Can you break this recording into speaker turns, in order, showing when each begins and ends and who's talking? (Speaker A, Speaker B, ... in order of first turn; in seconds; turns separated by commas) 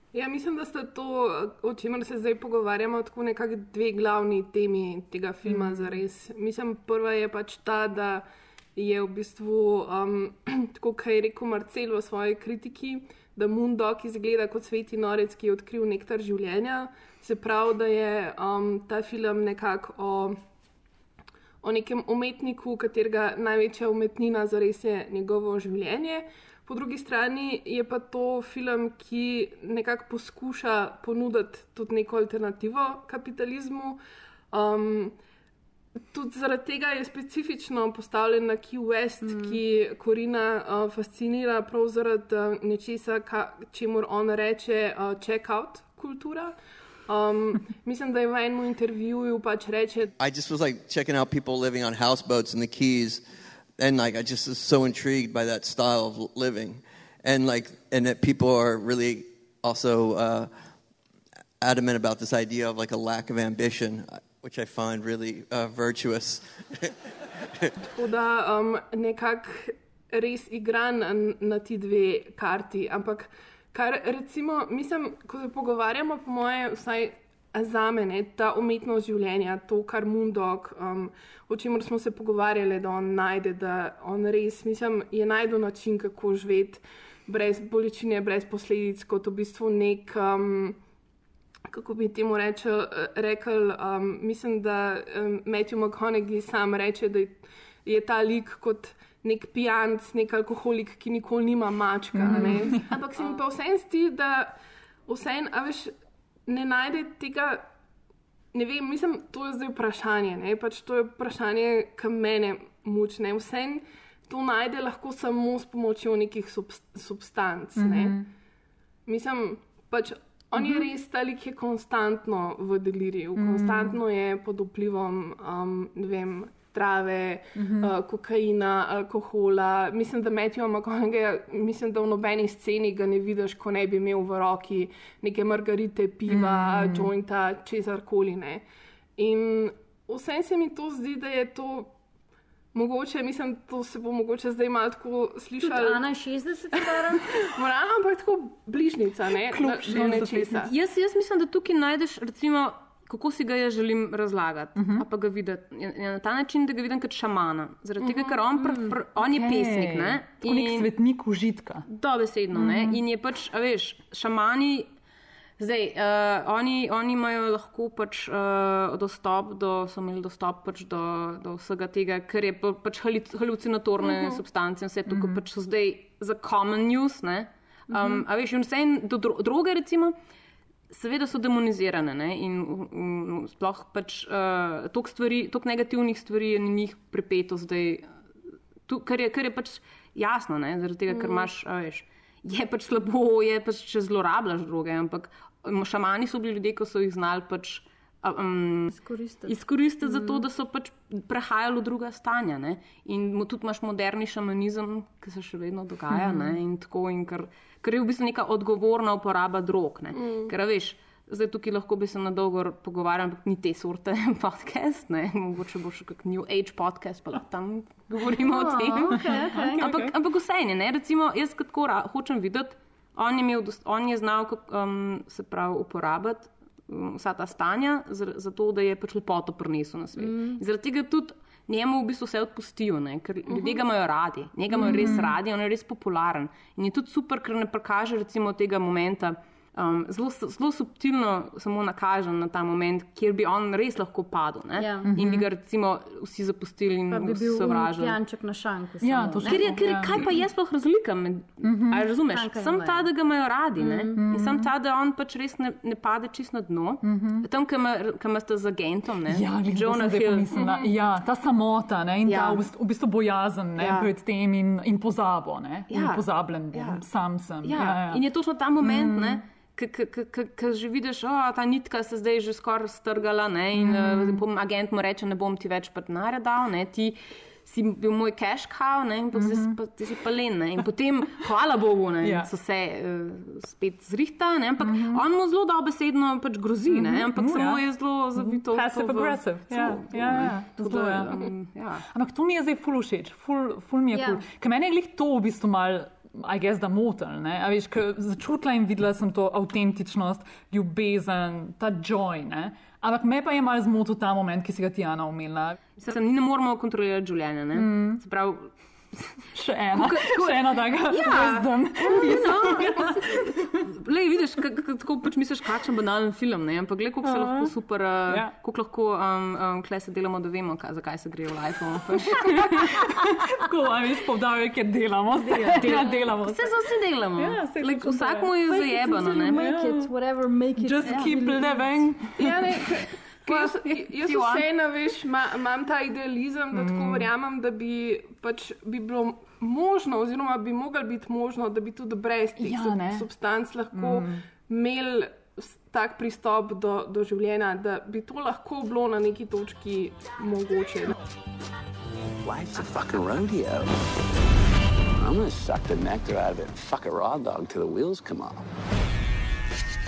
Speaker A: 0.1-20.4, Speaker B: 5.5-6.0, Speaker A: 21.6-34.0, Speaker A: 34.5-35.2, Speaker A: 36.1-46.5, Speaker C: 39.2-39.6, Speaker A: 47.1-50.1, Speaker D: 50.2-53.2, Speaker D: 53.8-60.5, Speaker D: 61.6-66.9, Speaker A: 67.9-90.8, Speaker A: 91.7-104.5, Speaker B: 102.1-102.9, Speaker A: 105.1-105.9, Speaker A: 106.5-107.6, Speaker A: 108.5-118.2, Speaker B: 117.8-118.3, Speaker A: 119.0-138.6, Speaker B: 120.6-120.8, Speaker B: 123.3-124.0, Speaker B: 127.5-127.9, Speaker B: 136.3-137.1, Speaker A: 139.2-141.9, Speaker A: 142.7-146.0, Speaker C: 145.6-147.4, Speaker A: 147.0-150.7, Speaker B: 149.4-150.6, Speaker E: 150.6-160.9, Speaker B: 154.8-155.1, Speaker A: 158.0-158.4, Speaker B: 158.6-161.8, Speaker E: 161.9-164.9, Speaker B: 162.5-163.0, Speaker E: 165.6-180.2, Speaker B: 175.1-175.4, Speaker C: 177.9-178.2, Speaker E: 180.9-188.0, Speaker E: 188.9-198.9, Speaker A: 191.1-191.5, Speaker C: 198.9-200.4, Speaker E: 199.5-248.2, Speaker B: 206.1-206.5, Speaker A: 210.1-210.5, Speaker C: 218.4-219.8, Speaker B: 219.1-220.1, Speaker C: 230.2-230.6, Speaker A: 233.5-233.8, Speaker B: 234.7-235.3, Speaker C: 244.8-245.1, Speaker B: 245.1-245.5, Speaker C: 247.1-249.7, Speaker B: 249.0-250.3, Speaker E: 249.5-260.9, Speaker B: 251.6-252.1, Speaker C: 252.3-253.1, Speaker C: 253.8-254.2, Speaker B: 254.1-254.7, Speaker B: 257.0-257.5, Speaker B: 259.3-268.2, Speaker E: 262.2-262.7, Speaker E: 263.8-264.1, Speaker E: 265.9-267.0, Speaker E: 267.6-292.0, Speaker B: 268.8-269.4, Speaker B: 273.7-274.4, Speaker B: 279.3-279.8, Speaker B: 282.2-282.5, Speaker B: 284.8-285.2, Speaker B: 286.9-291.5, Speaker B: 292.1-305.8, Speaker C: 294.1-294.4, Speaker E: 306.0-309.4, Speaker B: 307.7-308.2, Speaker B: 309.5-313.9, Speaker E: 309.9-323.0, Speaker B: 317.2-317.7, Speaker B: 318.3-318.5, Speaker B: 322.3-326.7, Speaker C: 325.3-326.2, Speaker E: 325.8-329.6, Speaker B: 327.4-328.5, Speaker C: 328.6-332.1, Speaker B: 329.5-330.1, Speaker B: 330.8-332.7, Speaker A: 332.4-351.2, Speaker E: 333.4-334.6, Speaker B: 336.7-337.3, Speaker B: 342.6-343.3, Speaker B: 343.9-344.4, Speaker F: 352.4-353.9, Speaker F: 355.1-358.6